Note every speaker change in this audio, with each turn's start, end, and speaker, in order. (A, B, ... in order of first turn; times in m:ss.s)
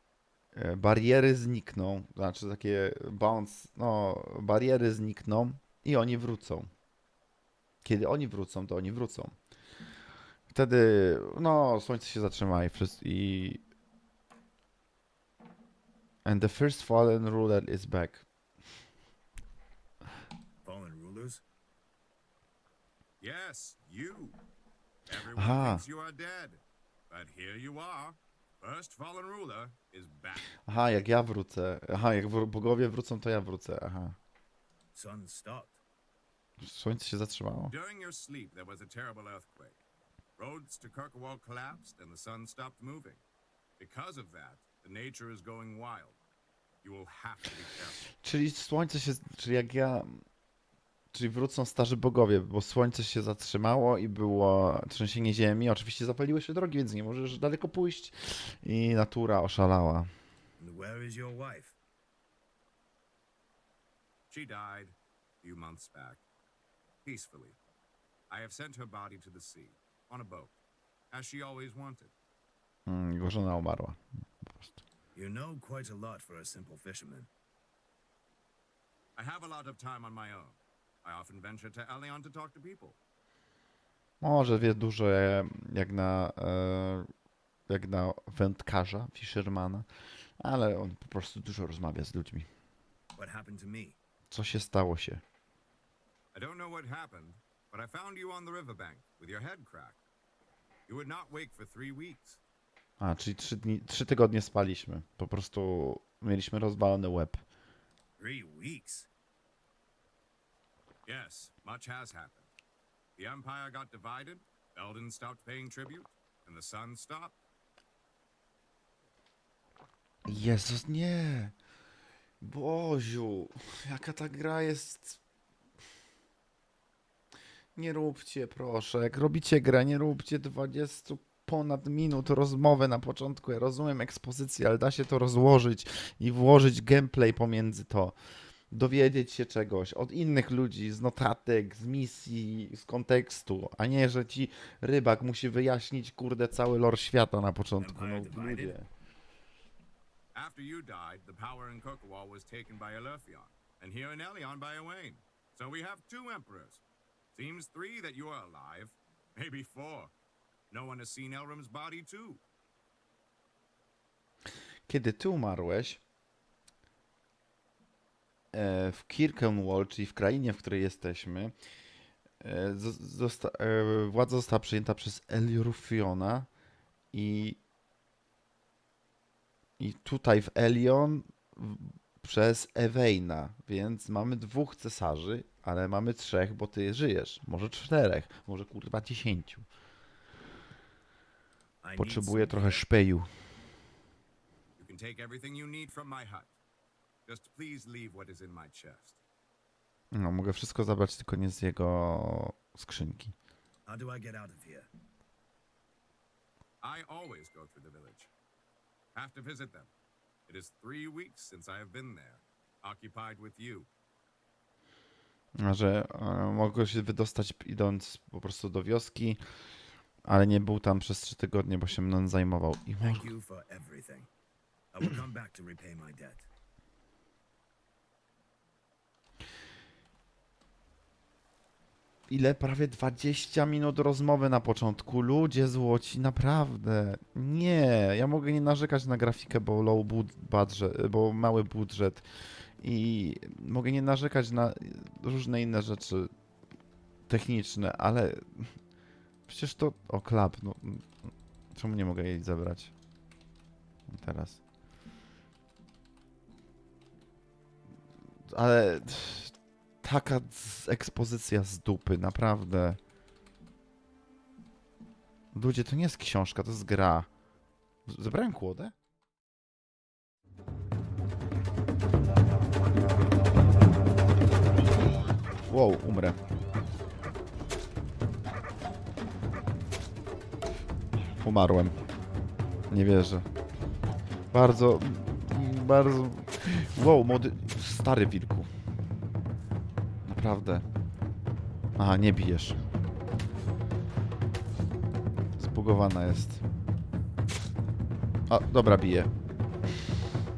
0:00.5-0:06.7 A
0:07.8-0:09.4 A
0:10.5-0:13.6 A
0:16.2-0:18.3 A
0:20.6-0:21.4 B
0:23.2-0:24.4 C
0:25.1-0:30.5 C
0:25.4-0:25.8 A
0:30.6-0:34.2 A
0:34.9-0:35.8 B
0:36.6-0:37.7 A
0:37.7-0:39.8 C
0:40.4-0:43.2 C
0:43.8-0:46.2 C
0:46.8-0:48.1 C
0:48.2-0:50.2 A
0:51.1-1:00.1 A
1:00.6-1:01.8 B
1:04.3-1:06.2 C
1:07.0-1:07.6 C
1:08.3-1:10.6 C
1:11.1-1:12.1 C
1:12.9-1:14.8 A
1:15.1-1:17.3 B
1:19.2-1:23.0 C
1:24.2-1:27.1 A
1:27.7-1:29.9 A
1:30.4-1:32.5 A
1:33.2-1:34.0 B
1:34.3-1:35.2 A
1:36.3-1:40.0 C
1:40.9-1:42.4 C
1:43.0-1:47.4 A
1:48.2-1:49.1 B
1:51.1-1:52.5 C
1:53.2-1:57.4 C
2:00.3-2:01.6 A
2:02.4-2:05.2 A
2:07.8-2:18.2 A
2:18.7-2:28.9 A
2:27.8-2:28.8 B
2:30.3-2:36.8 C
2:37.3-2:40.1 C
2:40.7-2:42.4 C
2:44.9-2:46.0 A
2:48.5-2:51.5 A
2:52.4-2:56.5 A
2:57.1-2:57.6 A
2:59.8-3:09.7 A
3:11.8-3:12.9 B
3:12.0-3:13.3 A
3:14.8-3:16.5 C
3:17.3-3:19.2 C
3:20.1-3:23.4 A
3:23.9-3:24.9 B
3:26.8-3:28.3 C
3:29.1-3:29.9 C
3:30.5-3:33.9 C
3:35.6-3:39.4 A
3:40.2-3:43.3 A
3:43.0-3:44.3 B
3:44.9-3:46.5 B
3:52.3-4:02.3 A
4:02.8-4:06.3 A
4:07.3-4:08.8 A
4:09.5-4:11.1 A
4:11.7-4:12.9 A
4:14.1-4:14.6 A
4:18.5-4:23.0 A
4:25.5-4:27.3 A
4:28.1-4:28.9 A
4:35.7-4:36.4 A
4:41.4-4:42.0 A
4:42.9-4:43.5 A
4:44.5-4:48.7 A
4:50.2-4:50.9 A
4:52.0-4:52.8 A
4:55.6-4:56.6 A
4:58.5-4:59.3 A